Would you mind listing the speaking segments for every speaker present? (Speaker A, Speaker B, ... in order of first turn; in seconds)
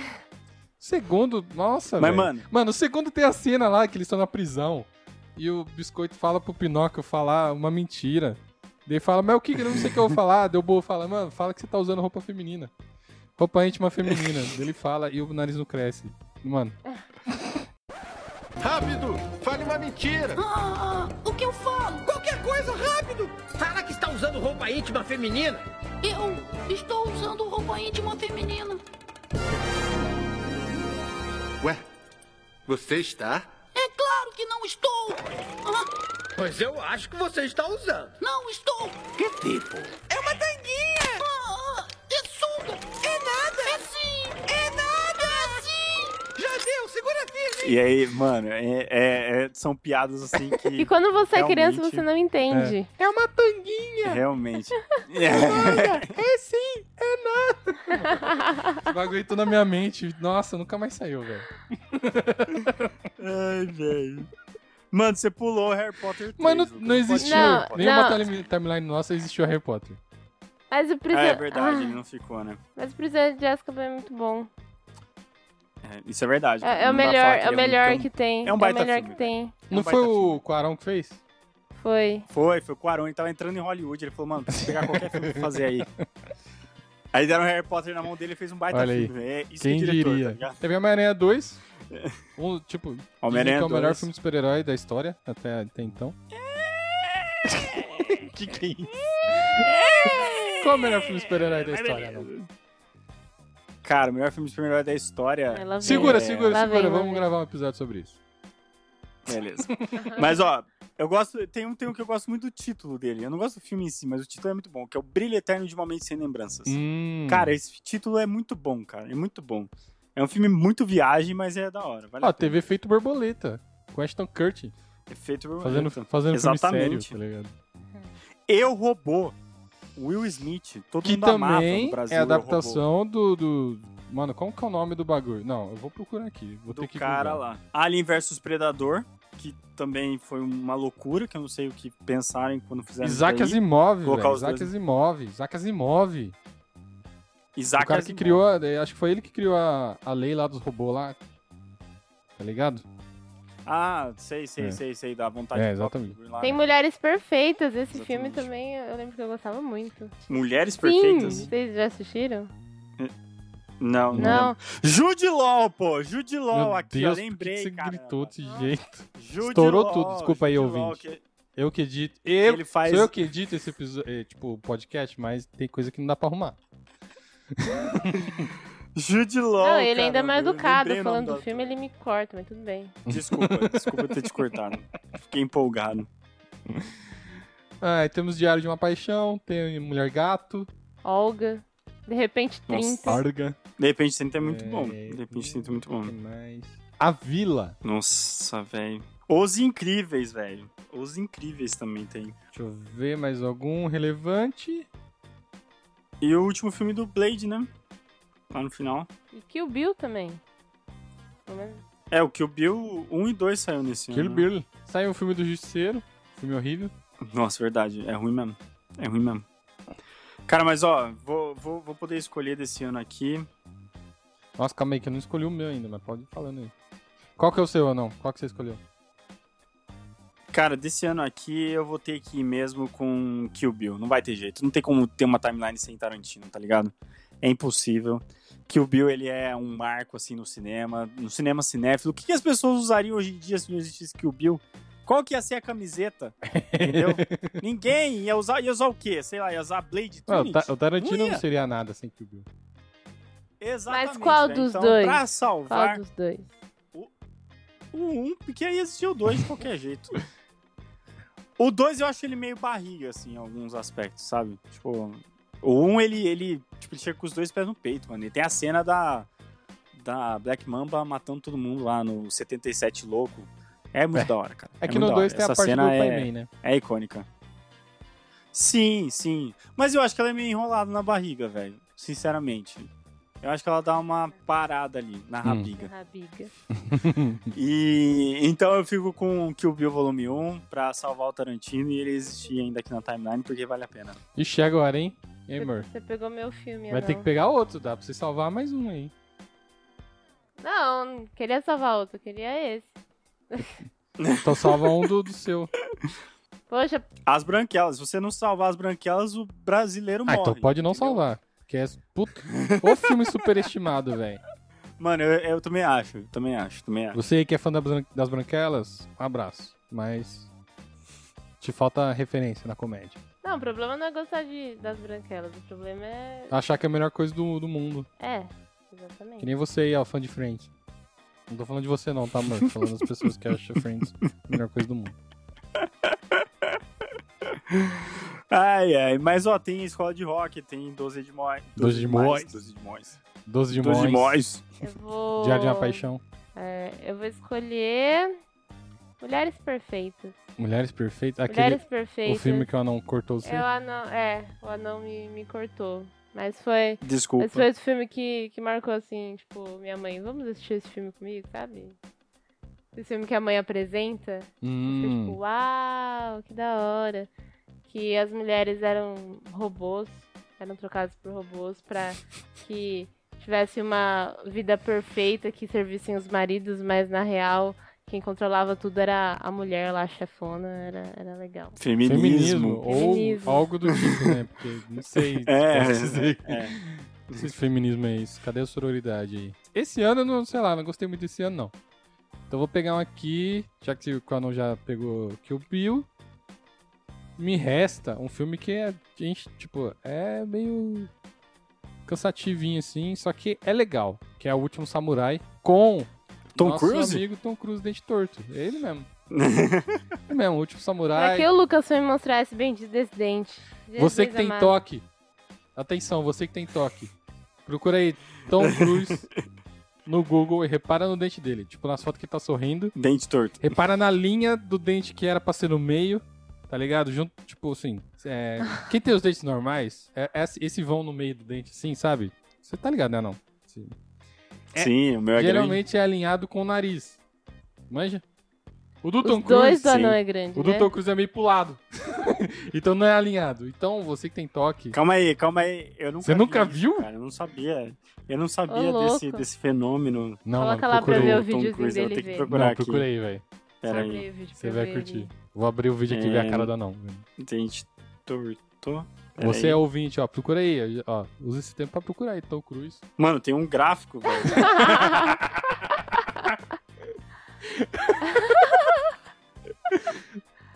Speaker A: 0.8-12.7, 13.4-16.8, 17.3-17.6, 52.5-54.2, 55.3-63.0, 66.4-70.0, 79.7-81.2, 84.5-86.0, 88.7-91.6, 92.4-96.2, 97.5-102.3, 105.8-108.2, 109.7-110.2, 116.7-117.5, 122.2-124.7, 125.6-127.5, 131.0-137.4, 143.0-146.3, 147.8-151.2, 152.4-152.8, 155.5-156.2, 161.2-161.5, 164.1-164.4, 166.5-171.0, 171.6-176.6, 177.5-178.4, 183.1-184.2, 186.7-187.0, 187.8-190.7, 193.0-193.6, 194.4-197.8, 202.5-204.9, 214.1-216.9, 224.6-226.7, 227.4-228.8, 246.4-247.5, 250.3-252.5, 274.1-276.5, 286.7-287.5, 294.3-295.9, 296.9-299.1, 304.4-305.7, 310.3-314.4, 317.1-320.5, 321.6-323.2, 326.5-328.1, 329.4-330.7, 331.5-335.1, 341.8-342.6, 343.4-344.6, 345.4-346.2, 350.6-353.6, 364.6-365.4, 382.1-391.7, 392.5-396.1, 397.4-401.1, 402.1-409.1, 410.3-411.5, 414.0-415.0, 415.8-417.1, 417.6-419.3, 420.1-422.9, 423.6-433.9, 434.7-437.2, 437.9-438.2, 439.0-445.0, 446.2-447.1, 450.4-451.5, 452.5-457.2, 459.4-463.0, 464.5-465.6, 467.6-468.9, 469.9-470.2
Speaker B: 2.0-2.5, 47.6-52.0, 54.0-56.1, 63.2-64.3, 64.9-68.0, 71.1-72.6, 75.8-80.4, 82.3-85.9, 87.1-90.6, 91.9-92.2, 93.2-94.1, 96.3-98.3, 98.9-102.5, 103.8-106.7, 109.2-122.6, 125.1-127.2, 128.5-129.3, 130.0-132.8, 136.7-144.7, 147.5-148.4, 153.7-156.6, 157.9-158.5, 160.3-161.5, 163.8-168.3, 169.2-171.2, 172.4-173.2, 178.0-181.8, 183.1-186.1, 192.7-193.2, 193.8-196.1, 197.8-202.3, 206.2-207.7, 208.5-209.1, 212.1-214.5, 217.2-219.4, 220.5-223.5, 230.5-251.4, 253.6-256.0, 257.9-260.2, 261.6-269.3, 269.9-277.3, 278.5-282.9, 283.4-285.9, 287.5-294.2, 304.2-304.9, 307.3-311.2, 312.5-313.1, 315.0-317.2, 335.8-336.8, 337.4-343.2, 343.7-344.6, 357.0-357.7, 381.8-382.8, 383.9-384.3, 385.4-387.5, 406.5-407.2, 409.3-410.1, 418.6-419.4, 422.9-423.8, 434.7-435.8, 444.9-450.4, 451.0-453.1, 453.8-454.2, 456.1-456.7, 457.4-459.8, 463.2-465.2
Speaker C: 18.6-20.4, 22.0-25.6, 32.6-33.5, 36.4-38.2, 39.2-41.2, 43.0-43.8, 44.5-45.3, 46.3-47.8
Speaker D: 20.4-22.1, 26.0-28.8, 33.7-35.9, 38.2-39.1, 41.1-46.1
Speaker E: 50.7-52.9, 58.3-58.7, 67.2-68.3, 70.7-72.0, 72.8-74.5, 76.6-79.5, 81.8-82.3, 105.5-107.3, 156.4-160.1, 160.8-162.5, 164.2-164.6, 168.4-168.7, 179.6-183.0, 191.0-193.2, 209.3-210.4, 211.5-211.8, 253.9-256.5, 285.8-286.5, 295.6-297.3, 300.6-302.9, 303.5-303.8, 306.7-307.1, 323.4-326.5, 328.2-329.5, 344.8-346.0, 346.6-348.4, 349.2-350.4, 351.5-352.7, 353.4-361.9, 362.9-367.3, 367.9-381.8, 382.8-383.7, 411.1-414.8, 439.2-440.9, 448.7-449.4, 450.6-452.5, 453.9-455.3